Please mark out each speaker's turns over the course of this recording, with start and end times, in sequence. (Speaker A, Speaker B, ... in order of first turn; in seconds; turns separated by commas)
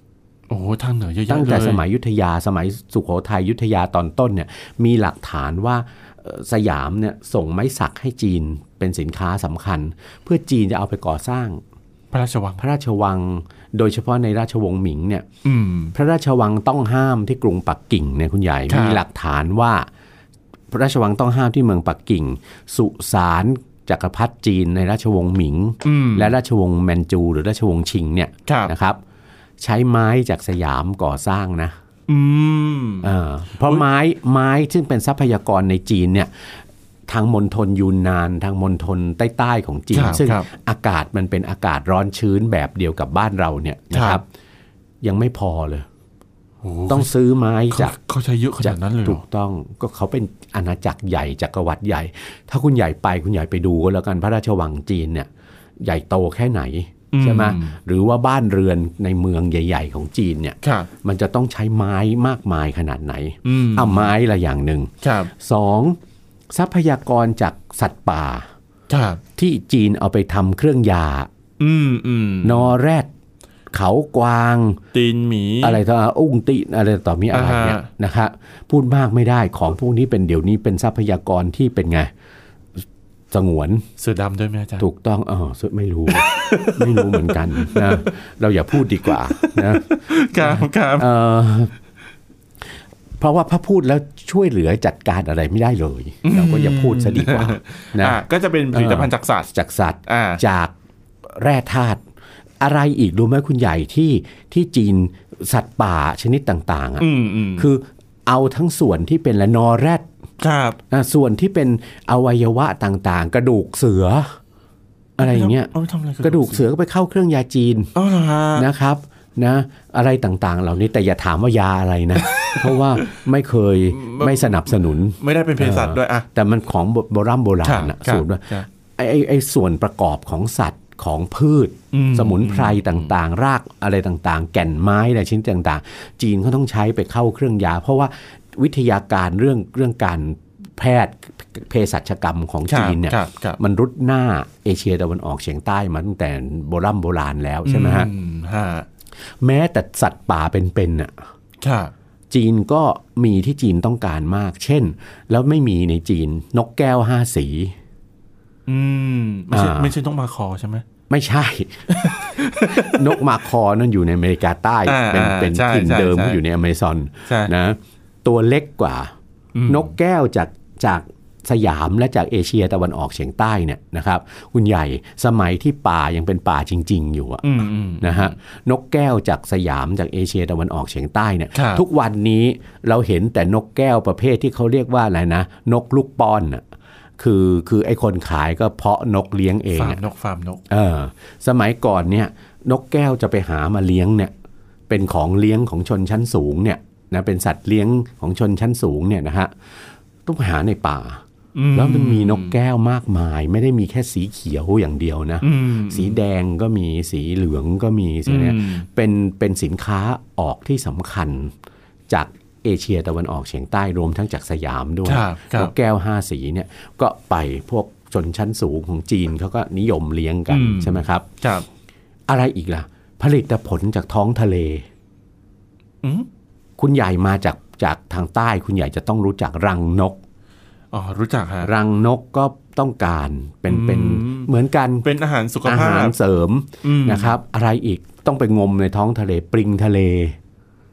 Speaker A: 0.5-1.8, Speaker B: 1.3-11.6, Speaker A: 12.1-12.6, Speaker B: 12.6-15.2, Speaker A: 15.4-15.9, Speaker B: 15.9-19.9, Speaker A: 18.7-19.0, Speaker B: 20.7-29.0, Speaker A: 25.8-26.3, Speaker A: 28.5-28.7, Speaker B: 29.6-31.7, Speaker A: 32.1-33.1, Speaker B: 33.0-36.5, Speaker B: 37.1-44.2, Speaker A: 39.9-40.5, Speaker A: 43.9-44.2, Speaker B: 45.0-45.9, Speaker A: 46.6-47.1, Speaker B: 46.9-47.9, Speaker A: 47.7-49.2, Speaker B: 48.6-55.3, Speaker B: 55.8-66.0, Speaker A: 57.1-57.8, Speaker A: 60.6-60.9, Speaker A: 63.4-64.1, Speaker A: 65.0-65.3, Speaker B: 66.5-68.5, Speaker A: 68.9-69.2, Speaker B: 69.3-71.3, Speaker A: 71.6-72.7, Speaker B: 72.4-73.1, Speaker B: 73.7-74.8, Speaker A: 74.9-75.8, Speaker B: 75.6-82.1, Speaker A: 77.3-77.9, Speaker B: 83.3-83.8, Speaker A: 84.0-84.8, Speaker B: 84.8-91.7, Speaker A: 86.1-88.1, Speaker A: 89.0-91.1, Speaker B: 93.2-98.2, Speaker A: 96.2-99.5, Speaker B: 98.7-100.7, Speaker A: 100.1-100.4, Speaker B: 101.3-102.0, Speaker B: 102.6-110.1, Speaker A: 107.0-107.7, Speaker A: 110.4-110.8, Speaker B: 110.9-114.3, Speaker B: 115.2-115.7, Speaker A: 115.2-116.6, Speaker B: 116.2-117.9, Speaker A: 117.9-118.7, Speaker B: 118.5-148.1, Speaker A: 122.3-123.0, Speaker A: 123.9-126.3, Speaker A: 127.6-128.7, Speaker A: 131.9-133.1, Speaker A: 142.7-143.6, Speaker A: 147.6-148.9, Speaker B: 149.4-151.1, Speaker A: 151.6-151.9, Speaker B: 152.3-157.7, Speaker A: 158.7-160.8, Speaker B: 159.5-159.9, Speaker B: 161.1-169.1, Speaker A: 161.9-163.2, Speaker A: 164.8-166.4, Speaker A: 167.3-167.5, Speaker A: 169.5-169.9, Speaker B: 169.7-177.4, Speaker A: 177.4-178.3, Speaker B: 178.0-186.6, Speaker A: 181.5-181.8, Speaker B: 187.2-190.0, Speaker A: 189.7-190.6, Speaker B: 190.7-194.3, Speaker B: 194.9-199.5, Speaker B: 200.2-201.2, Speaker A: 201.5-202.5, Speaker B: 201.7-211.5, Speaker A: 205.4-206.2, Speaker A: 208.2-208.8, Speaker B: 212.1-221.2, Speaker A: 215.1-215.7, Speaker A: 220.5-221.7, Speaker B: 222.3-224.8, Speaker A: 226.0-226.3, Speaker B: 226.8-230.2, Speaker A: 230.9-231.7, Speaker B: 231.6-235.1, Speaker A: 233.7-234.5, Speaker A: 235.0-236.1, Speaker B: 235.6-240.3, Speaker A: 236.8-237.3